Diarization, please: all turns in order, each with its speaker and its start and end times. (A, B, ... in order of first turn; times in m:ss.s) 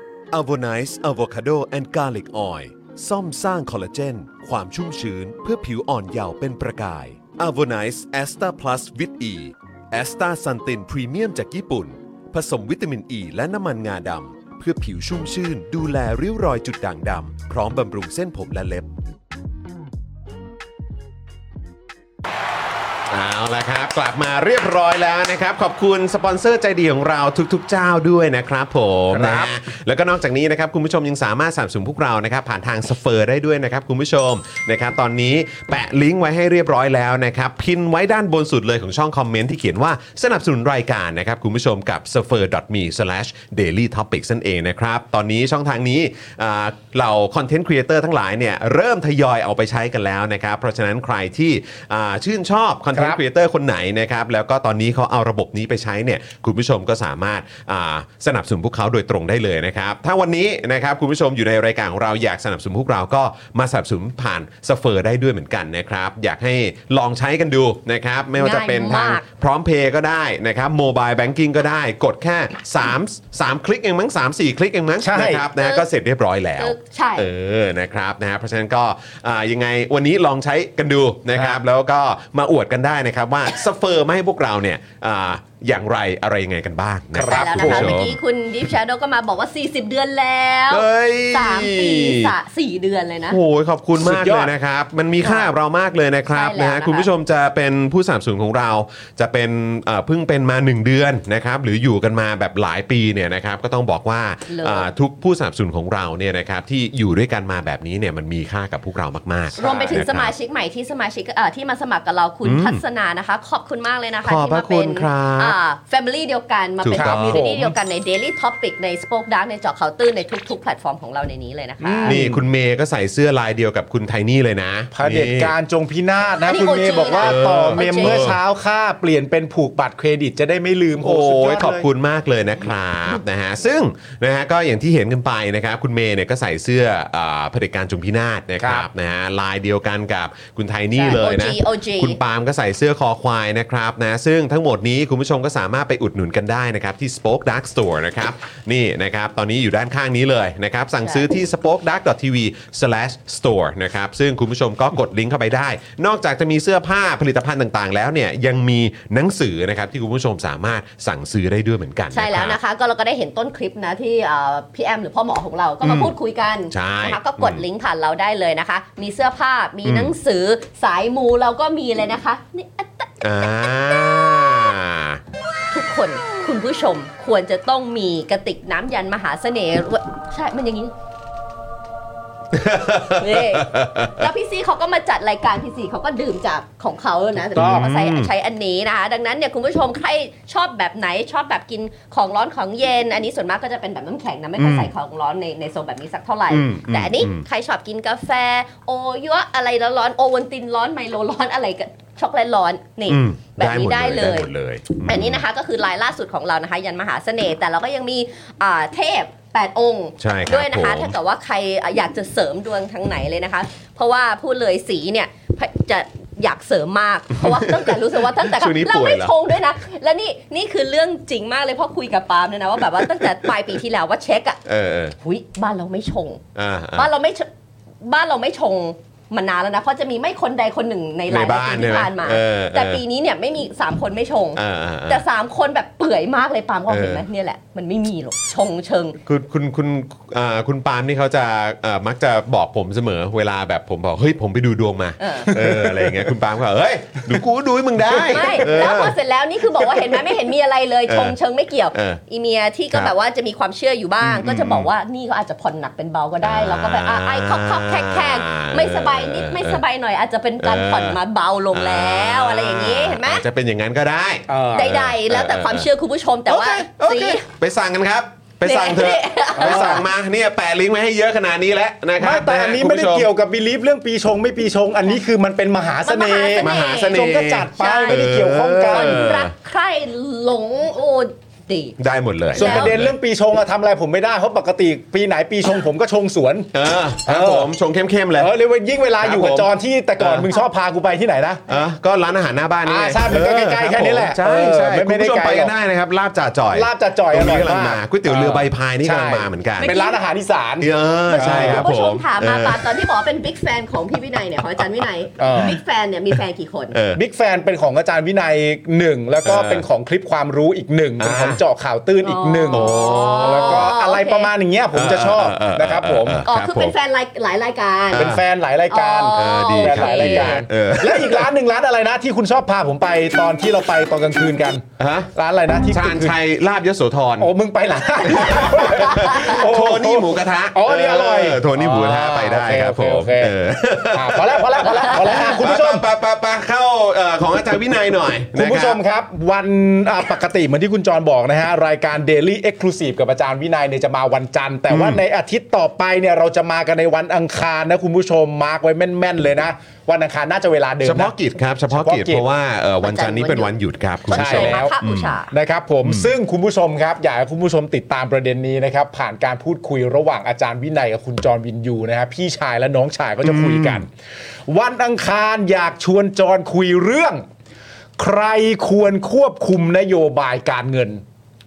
0:00.3-0:18.9 A
0:23.1-1:28.2 A
0:29.1-0:29.5 B
0:52.9-0:53.2 B
1:08.4-1:09.2 C
1:15.0-1:15.4 B
1:15.6-1:15.8 C
1:16.6-1:17.3 C
1:21.3-1:21.6 B
1:27.1-1:28.0 B
1:27.3-1:33.4 C
1:30.7-1:32.3 A
1:33.3-1:50.3 A
1:34.0-1:34.5 B
1:35.2-1:35.5 C
1:36.3-1:37.1 C
1:44.5-1:44.9 C
1:49.6-2:02.2 C
1:52.4-1:52.8 A
1:54.2-1:55.5 A
1:56.8-1:57.5 A
1:56.9-1:57.7 B
2:01.8-2:02.4 B
2:02.0-2:05.5 A
2:04.9-2:11.9 B
2:06.4-2:08.2 C
2:07.1-2:08.4 A
2:11.0-2:42.6 A
2:18.6-2:18.9 B
2:21.0-2:22.2 C
2:31.0-2:31.3 C
2:42.1-2:53.5 C
2:45.8-2:46.1 A
2:46.7-2:47.6 A
2:49.8-2:50.1 A
2:53.2-2:55.2 A
2:55.7-3:00.9 C
3:02.5-3:04.3 A
3:03.2-3:24.5 C
3:07.5-3:08.3 A
3:07.6-3:07.8 B
3:14.6-3:14.9 A
3:16.5-3:17.4 A
3:23.1-3:25.4 A
3:25.0-3:44.6 C
3:30.2-3:31.1 A
3:37.4-3:37.9 A
3:38.5-3:39.3 A
3:44.6-3:45.1 A
3:45.2-3:46.4 C
3:46.6-3:47.1 A
3:47.0-3:47.5 C
3:48.0-3:59.2 C
3:51.3-3:53.0 A
3:54.6-3:55.2 A
3:56.9-3:57.2 A
3:59.2-4:09.1 A
4:05.2-4:05.5 C
4:05.5-4:06.2 B
4:08.1-4:23.4 C
4:09.8-4:10.3 A
4:11.1-4:11.4 A
4:11.9-4:12.2 A
4:14.2-4:14.9 A
4:16.4-4:19.8 A
4:20.6-4:21.2 A
4:21.7-4:25.8 A
4:24.5-4:24.9 B
4:24.7-4:27.4 C
4:26.5-4:33.3 A
4:28.6-4:30.1 C
4:29.6-4:30.0 B
4:32.2-4:39.2 B
4:36.0-4:37.2 C
4:36.6-4:39.5 A
4:37.8-4:38.2 C
4:38.9-4:42.0 C
4:42.0-4:43.1 A
4:42.5-4:46.7 B
4:42.5-4:43.0 C
4:46.7-4:48.5 A
4:47.2-4:47.7 B
4:48.4-4:51.6 B
4:49.2-4:50.5 A
4:51.7-5:00.0 A
4:52.8-4:55.7 B
4:56.7-5:01.9 B
4:59.8-5:00.2 C
5:00.8-5:02.8 A
5:01.3-5:07.0 C
5:05.4-5:05.8 B
5:06.9-5:07.2 A
5:07.1-5:16.4 B
5:09.4-5:09.8 A
5:11.2-5:11.6 A
5:12.2-5:14.5 C
5:12.7-5:13.9 A
5:14.9-5:16.9 A
5:16.4-5:18.3 C
5:18.1-5:26.4 B
5:18.1-5:18.4 A
5:18.9-5:20.6 C
5:19.3-5:21.5 A
5:25.0-5:25.3 A
5:25.9-5:27.5 A
5:27.4-5:33.5 B
5:28.3-5:39.0 A
5:34.1-5:36.0 B
5:38.5-5:51.3 B
5:44.9-5:45.2 A
5:51.0-5:55.3 A
5:51.9-5:52.4 B
5:53.0-5:53.7 C
5:54.3-5:55.5 C
5:54.3-5:55.0 B
5:55.5-6:04.1 B
5:56.0-5:56.3 A
6:03.4-6:04.0 A
6:04.7-6:07.4 B
6:08.2-6:11.2 B